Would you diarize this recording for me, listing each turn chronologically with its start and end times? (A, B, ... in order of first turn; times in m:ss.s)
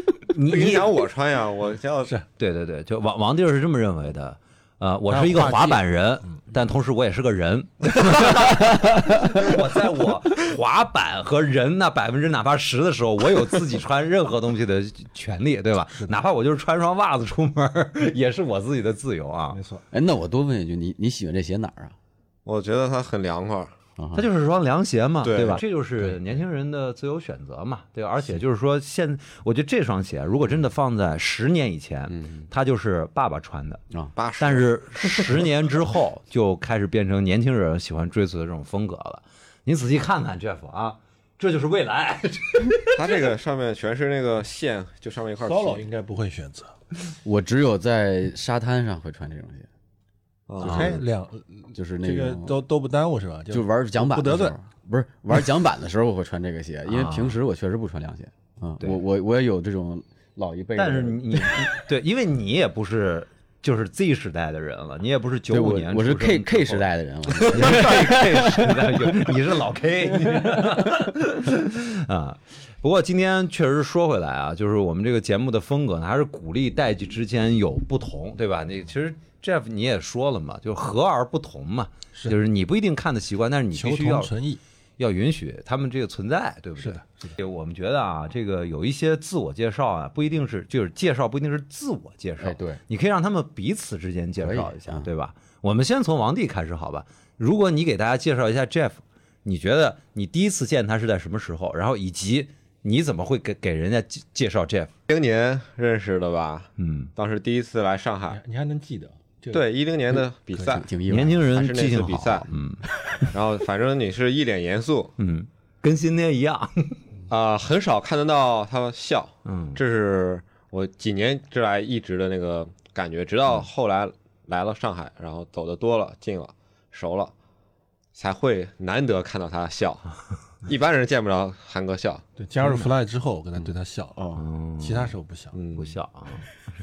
0:00.3-0:00.9 A
0:00.5-0:02.1 B
0:02.4-0:19.6 A
0:05.1-0:06.3 C
0:15.9-0:16.2 C
0:19.5-0:19.8 C
0:19.9-0:22.0 D
0:22.4-0:23.7 B
0:24.0-0:24.2 D
0:24.1-0:33.8 A
0:25.2-0:25.6 B
0:26.0-0:26.3 D
0:32.1-0:32.5 D
0:34.2-0:34.7 B
0:34.4-0:43.0 A
0:42.9-0:45.9 B
0:45.4-0:46.7 C
0:47.2-0:49.7 D
0:50.5-0:51.0 B
0:50.6-0:54.6 C
0:51.7-0:52.6 D
0:53.5-1:01.7 D
0:56.9-0:57.4 A
1:00.8-1:24.3 A
1:05.5-1:09.3 D
1:10.1-1:10.9 D
1:23.7-1:24.6 C
1:25.0-1:44.9 A
1:26.8-1:27.4 C
1:32.4-1:32.8 D
1:34.4-1:35.1 D
1:45.1-1:48.4 B
1:46.8-1:47.1 A
1:48.3-1:49.6 C
1:49.5-1:50.9 B
1:50.1-1:51.5 D
1:51.1-1:52.8 A
1:51.5-1:52.5 B
1:53.2-1:55.1 B
1:55.2-1:57.0 A
1:57.3-2:07.3 B
1:59.4-1:59.8 A
2:08.1-2:10.1 B
2:10.6-2:12.2 B
2:12.4-2:15.6 C
2:14.4-2:15.1 A
2:15.5-2:15.9 B
2:15.8-2:16.4 A